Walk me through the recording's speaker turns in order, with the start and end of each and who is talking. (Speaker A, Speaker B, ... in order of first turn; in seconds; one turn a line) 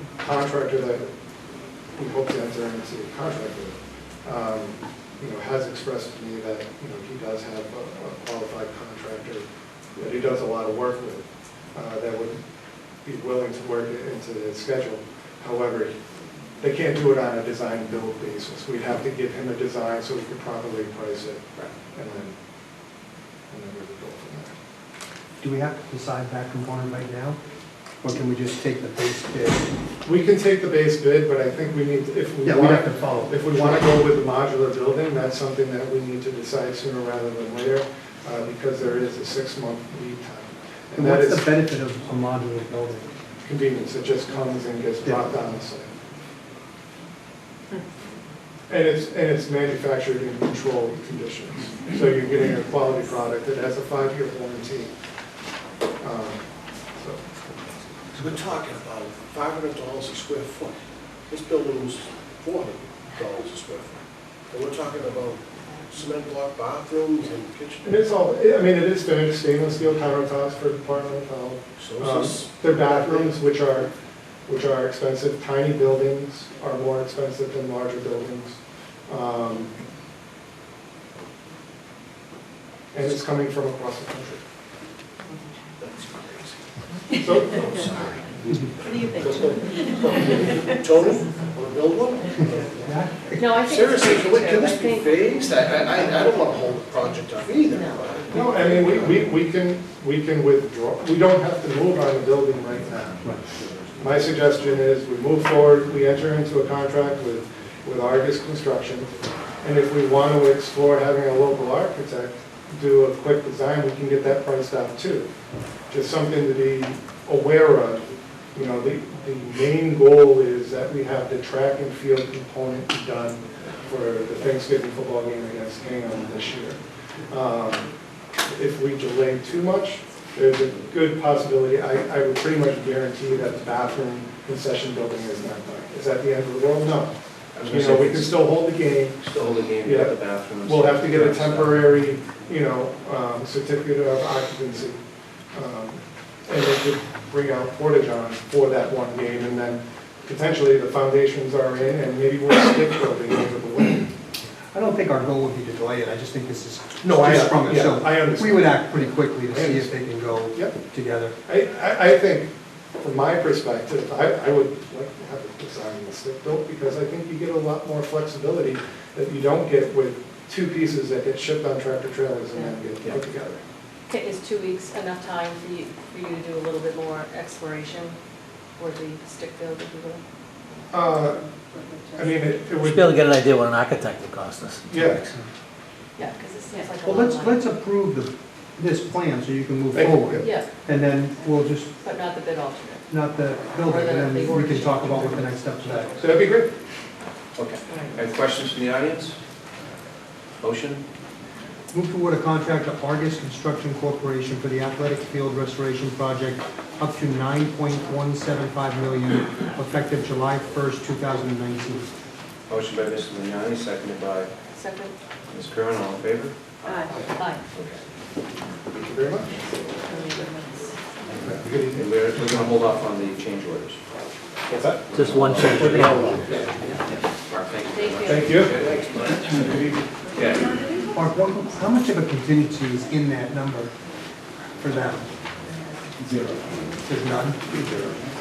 Speaker A: 0.2-1.1
Speaker A: 2.0-9.4
Speaker A: 10.0-12.4
Speaker A: 13.1-15.9
Speaker A: 16.6-22.4
Speaker A: 23.5-24.5
Speaker B: 25.4-27.4
Speaker B: 28.0-29.6
Speaker A: 30.0-41.5
Speaker B: 32.4-33.9
Speaker B: 41.0-43.1
Speaker A: 43.5-45.9
Speaker A: 48.7-54.9
Speaker A: 56.0-57.4
Speaker C: 58.2-68.0
Speaker A: 67.8-73.9
Speaker C: 71.8-73.3
Speaker A: 74.5-79.7
Speaker A: 82.9-84.4
Speaker C: 85.8-86.6
Speaker A: 87.1-88.1
Speaker C: 87.5-92.8
Speaker B: 92.8-93.6
Speaker D: 93.4-96.3
Speaker C: 93.5-98.8
Speaker D: 97.7-98.7
Speaker A: 98.3-103.3
Speaker C: 103.6-104.2
Speaker A: 104.0-115.3
Speaker A: 115.9-126.8
Speaker A: 127.3-127.9
Speaker A: 128.5-139.2
Speaker E: 137.6-138.3
Speaker E: 139.2-141.8
Speaker A: 139.8-145.0
Speaker A: 145.5-154.1
Speaker B: 154.7-161.4
Speaker A: 157.0-160.8
Speaker A: 161.4-173.6
Speaker D: 174.1-178.2
Speaker D: 178.8-180.9
Speaker A: 180.9-181.4
Speaker A: 182.1-183.3
Speaker F: 182.8-185.2
Speaker A: 184.9-185.2
Speaker D: 186.2-187.7
Speaker B: 187.0-191.9
Speaker A: 189.9-190.5
Speaker D: 190.4-190.7
Speaker D: 192.0-193.1
Speaker B: 193.1-196.2
Speaker D: 193.8-196.3
Speaker A: 196.2-196.7
Speaker E: 197.6-199.4
Speaker D: 197.9-198.2
Speaker E: 200.6-201.0
Speaker B: 201.9-212.1
Speaker E: 212.7-214.5
Speaker D: 214.7-215.1
Speaker E: 215.5-217.2
Speaker D: 217.4-217.6
Speaker E: 217.7-218.0
Speaker A: 218.9-219.5
Speaker D: 220.0-220.9
Speaker A: 221.4-222.1
Speaker E: 221.9-224.1
Speaker A: 224.7-226.7
Speaker F: 225.2-226.3
Speaker E: 227.5-229.7
Speaker D: 227.9-228.5
Speaker A: 228.2-228.8
Speaker E: 230.3-230.8
Speaker B: 231.1-233.9
Speaker B: 234.8-235.3
Speaker B: 237.1-238.1